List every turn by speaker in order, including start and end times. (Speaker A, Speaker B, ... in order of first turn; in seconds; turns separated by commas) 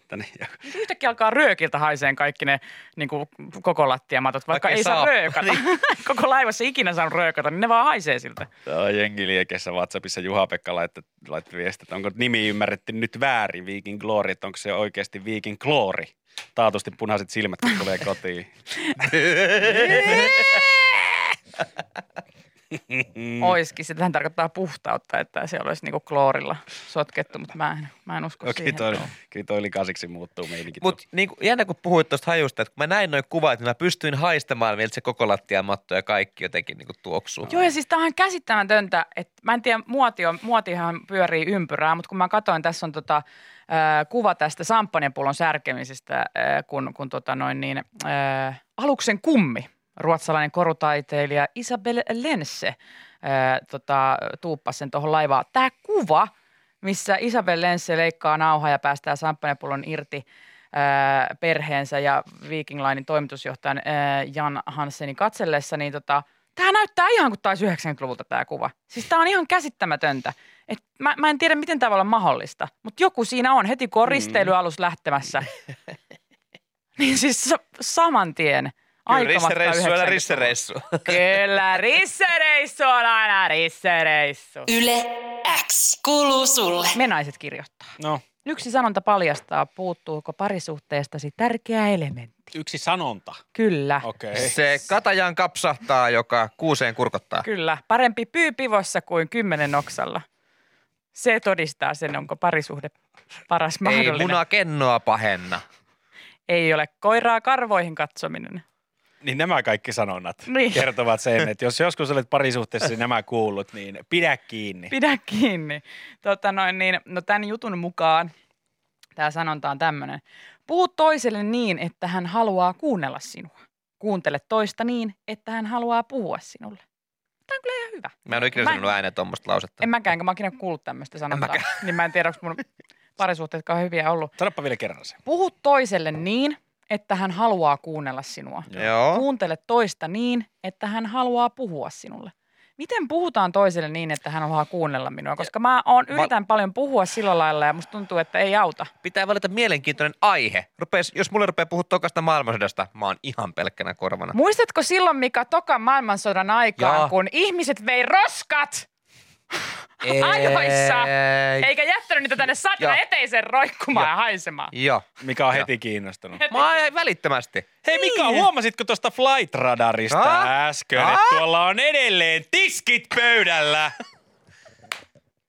Speaker A: 0.1-0.6, Speaker B: 0.7-8.5, Speaker C: 4.5-5.6, Speaker A: 8.7-20.6, Speaker B: 19.7-20.5, Speaker C: 19.7-20.3, Speaker A: 22.9-23.6, Speaker B: 23.4-29.1, Speaker A: 28.4-31.0, Speaker C: 30.8-37.5, Speaker B: 37.5-75.5, Speaker B: 77.0-84.7, Speaker C: 79.1-81.3, Speaker D: 84.7-87.0, Speaker B: 86.9-87.9, Speaker B: 88.4-92.5, Speaker A: 92.5-93.4, Speaker B: 93.5-94.1, Speaker A: 94.0-94.6, Speaker C: 94.3-97.5, Speaker B: 97.4-100.2, Speaker B: 101.2-102.9, Speaker B: 103.5-104.4, Speaker C: 103.8-105.6, Speaker B: 106.5-108.6, Speaker A: 109.2-114.9, Speaker B: 110.5-110.9, Speaker B: 114.9-118.3, Speaker B: 119.2-126.8, Speaker B: 127.5-128.9, Speaker C: 128.3-129.8, Speaker B: 129.8-132.7, Speaker C: 131.3-131.8, Speaker B: 133.2-134.3, Speaker A: 134.4-135.2, Speaker B: 135.2-148.9, Speaker C: 138.7-139.2, Speaker C: 149.0-154.3, Speaker B: 154.3-158.9, Speaker C: 156.8-157.1, Speaker B: 160.0-164.7, Speaker C: 160.0-161.7, Speaker C: 164.7-165.7, Speaker A: 165.2-166.4, Speaker B: 166.4-166.8, Speaker C: 166.5-167.7, Speaker A: 167.8-173.9, Speaker B: 167.9-168.5, Speaker C: 170.1-171.4